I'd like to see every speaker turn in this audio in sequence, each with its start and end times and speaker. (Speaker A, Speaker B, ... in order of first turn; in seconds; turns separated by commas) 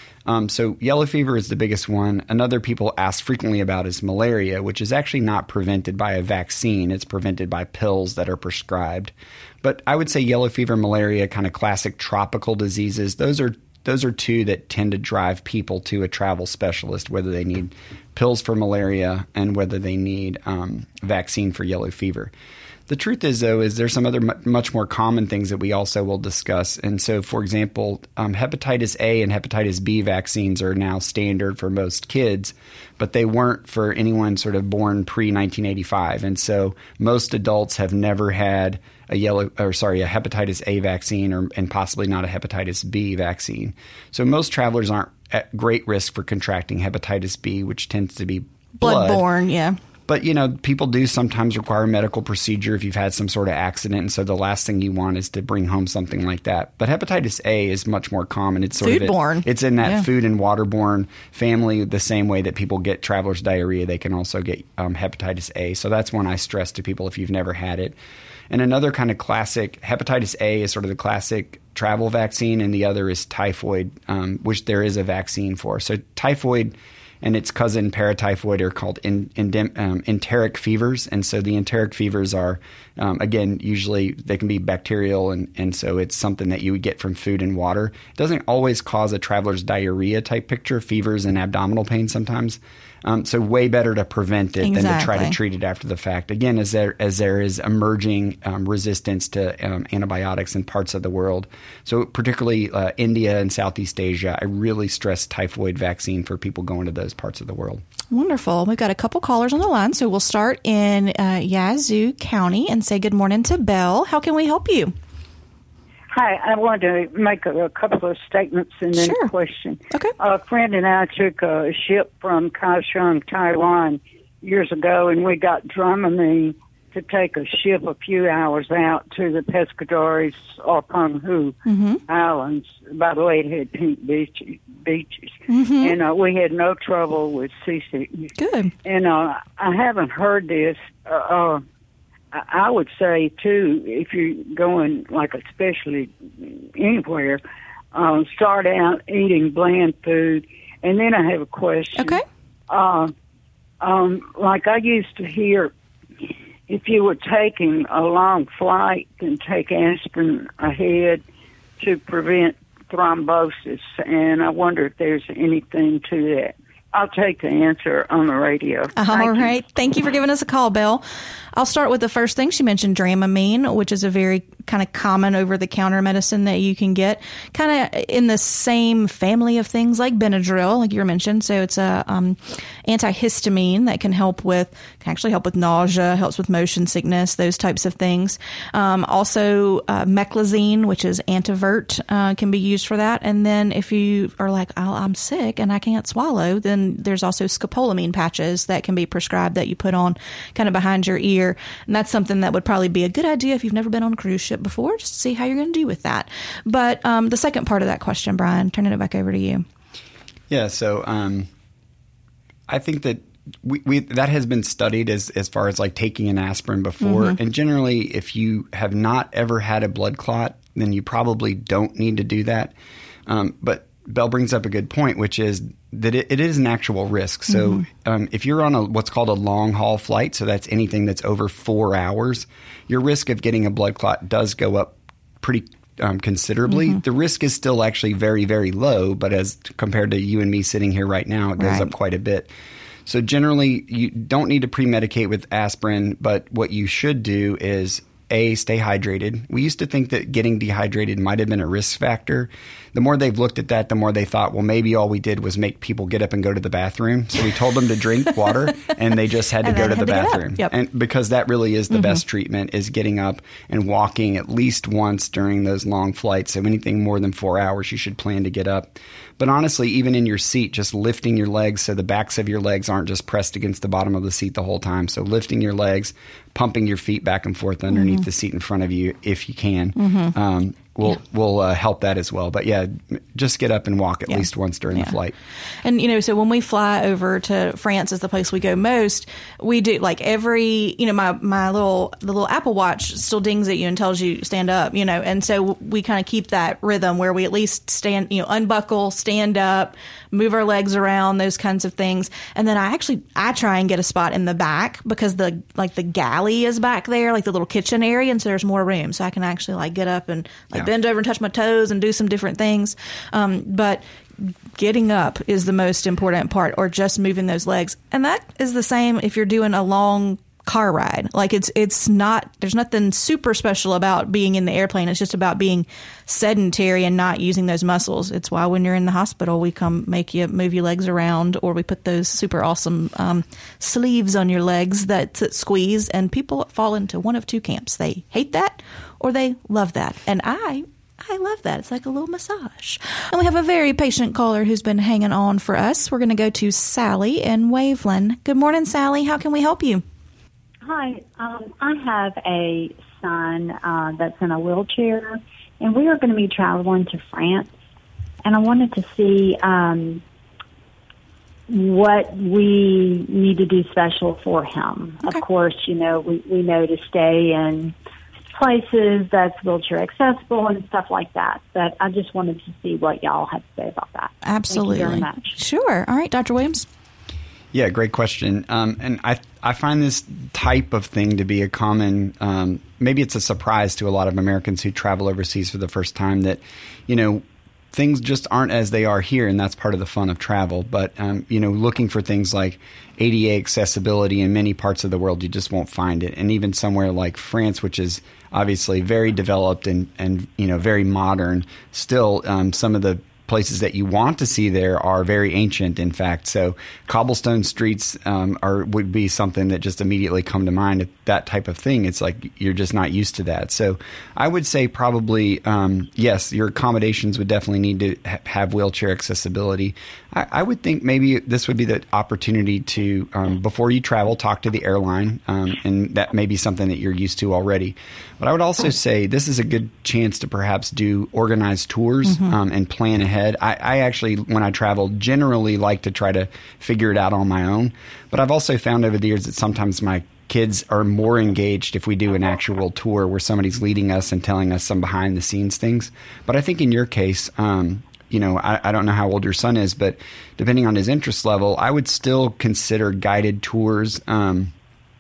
Speaker A: 0.3-22.3, Speaker A: 22.9-49.2, Speaker B: 48.8-49.8, Speaker A: 50.1-68.0, Speaker B: 58.8-60.1, Speaker A: 68.5-107.8, Speaker B: 94.6-95.4, Speaker B: 108.1-114.9, Speaker C: 116.1-131.6, Speaker B: 119.0-119.3, Speaker B: 131.6-132.0, Speaker C: 132.1-138.3, Speaker B: 135.5-135.9, Speaker B: 138.4-138.7, Speaker C: 138.8-141.6, Speaker C: 142.3-147.4, Speaker C: 147.9-153.1, Speaker B: 152.0-152.2, Speaker C: 153.8-155.7, Speaker C: 156.7-161.2, Speaker C: 161.8-169.6, Speaker B: 169.0-171.0, Speaker B: 171.6-209.6, Speaker A: 210.5-211.5, Speaker A: 212.7-222.7, Speaker B: 217.0-217.4, Speaker A: 223.3-242.5, Speaker B: 227.5-227.8, Speaker B: 241.6-241.9, Speaker A: 243.1-285.4, Speaker B: 259.6-260.7, Speaker B: 261.9-262.2, Speaker B: 277.9-278.2, Speaker B: 279.9-280.4, Speaker B: 284.3-285.1, Speaker B: 285.8-350.0, Speaker D: 350.9-357.7, Speaker D: 358.4-360.2, Speaker D: 361.7-367.9, Speaker D: 368.6-375.6, Speaker B: 374.4-376.9, Speaker A: 377.7-454.7, Speaker B: 432.3-432.5